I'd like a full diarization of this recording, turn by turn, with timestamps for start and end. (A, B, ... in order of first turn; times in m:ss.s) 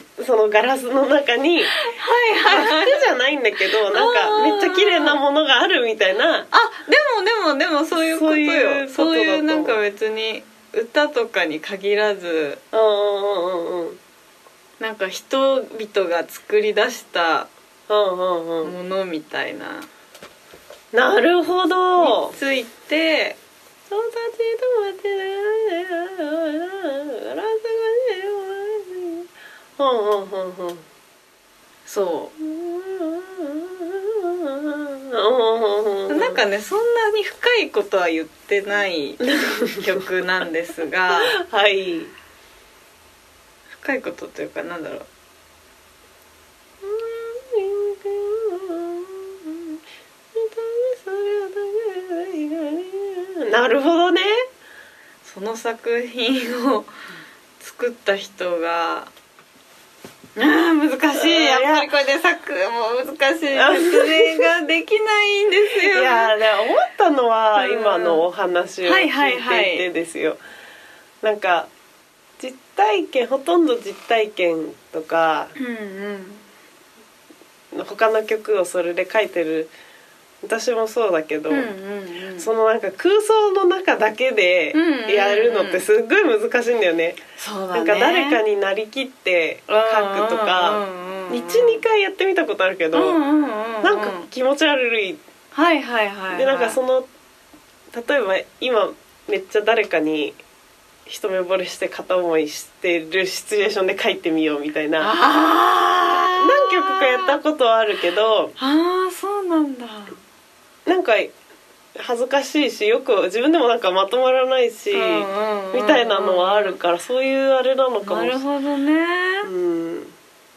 0:00.2-0:01.9 A
0:01.8-0:03.1 B
0:02.5-0:06.5 A
0:03.9-0:05.2 B
0:06.5-0:12.6 B
0:07.9-0:09.8 A
0:12.7-0:14.0 A
0:14.8-0:17.5 B
0:17.9-0:18.8 A
0:18.6-0:19.9 B
0:20.9-0:22.4 A
0:22.0-0:23.4 B
0:23.9-0:30.9 A
0:31.9-0:32.3 B
0:32.4-0:36.4 A
0:36.1-0:41.4 B
0:39.4-0:40.0 A
0:41.2-0:42.1 A
0:43.7-0:45.1 B
0:46.8-0:49.8 A
0:50.3-0:54.4 A
0:55.2-0:56.9 B
0:57.6-0:59.1 B
1:00.4-1:06.4 B
1:01.2-1:01.9 A
1:03.5-1:04.5 A
1:05.9-1:10.4 A
1:07.6-1:08.2 B
1:08.8-1:09.9 B
1:11.2-1:11.7 A
1:12.4-1:15.5 A
1:15.6-1:16.4 B
1:17.7-1:19.7 A
1:20.4-1:21.7 A
1:21.5-1:22.5 B
1:22.4-1:27.2 A
1:24.7-1:25.8 B
1:27.4-1:28.4 B
1:27.7-1:33.2 A
1:29.7-1:31.8 B
1:32.9-1:34.3 B
1:33.8-1:35.2 A
1:35.5-1:36.8 B
1:36.3-1:37.1 A
1:37.9-1:40.4 A
1:41.1-1:45.1 A
1:45.0-1:47.4 B
1:46.1-1:48.5 A
1:48.6-1:50.2 B
1:50.9-1:51.3 A
1:52.0-1:58.4 A
1:54.9-1:56.8 B
1:58.0-1:59.5 B
1:59.4-2:00.2 A